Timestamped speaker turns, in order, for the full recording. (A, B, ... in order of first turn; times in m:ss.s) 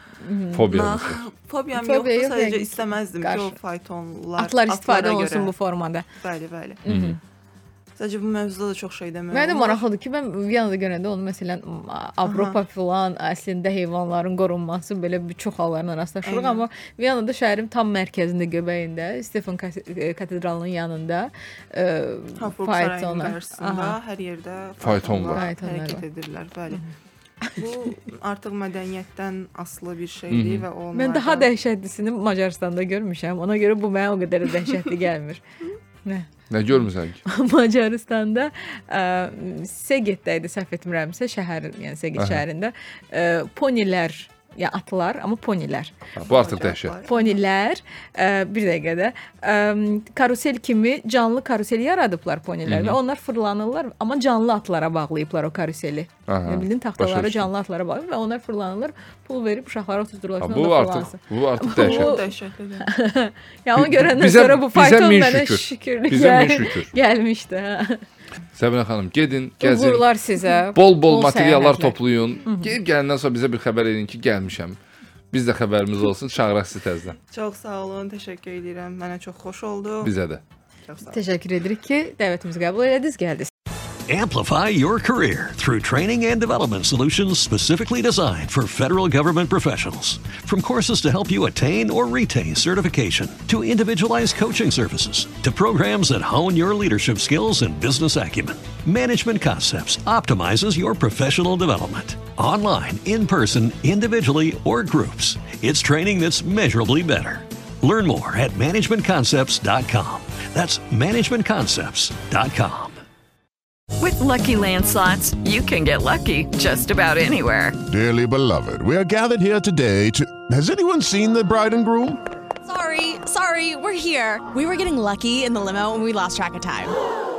0:00.2-0:00.7 A
0:00.5-0:01.2 B
0:00.7-0:05.5 C
0:01.8-0:03.6 A
0:04.4-0:06.0 A
0:06.2-0:06.8 C
0:06.8-0:07.2 A
0:06.9-0:07.2 B
0:08.0-0:09.8 C
0:09.3-0:24.0 A
0:12.2-0:12.6 C
0:16.2-0:16.6 C
0:22.4-0:26.8 C
0:24.8-0:25.4 B
0:25.3-0:26.0 A
0:27.6-0:31.5 C
0:30.3-0:30.6 B
0:30.9-0:35.4 A
0:36.5-0:37.2 B
0:37.2-0:45.9 A
0:42.2-0:42.4 B
0:46.2-0:47.0 B
0:46.2-0:47.1 C
0:47.0-1:02.2 A
0:52.6-0:53.0 B
0:56.3-0:57.5 B
1:00.4-1:02.1 B
1:01.7-1:02.9 C
1:02.8-1:08.0 A
1:03.8-1:06.9 B
1:08.5-1:10.1 B
1:09.6-1:12.7 A
1:10.7-1:14.8 B
1:15.3-1:17.2 B
1:17.3-1:20.1 C
1:20.0-1:20.4 B
1:20.8-1:21.3 C
1:21.1-1:23.5 A
1:24.0-1:53.0 D
1:54.0-1:57.8 E
1:57.9-2:02.2 F
2:02.6-2:07.0 G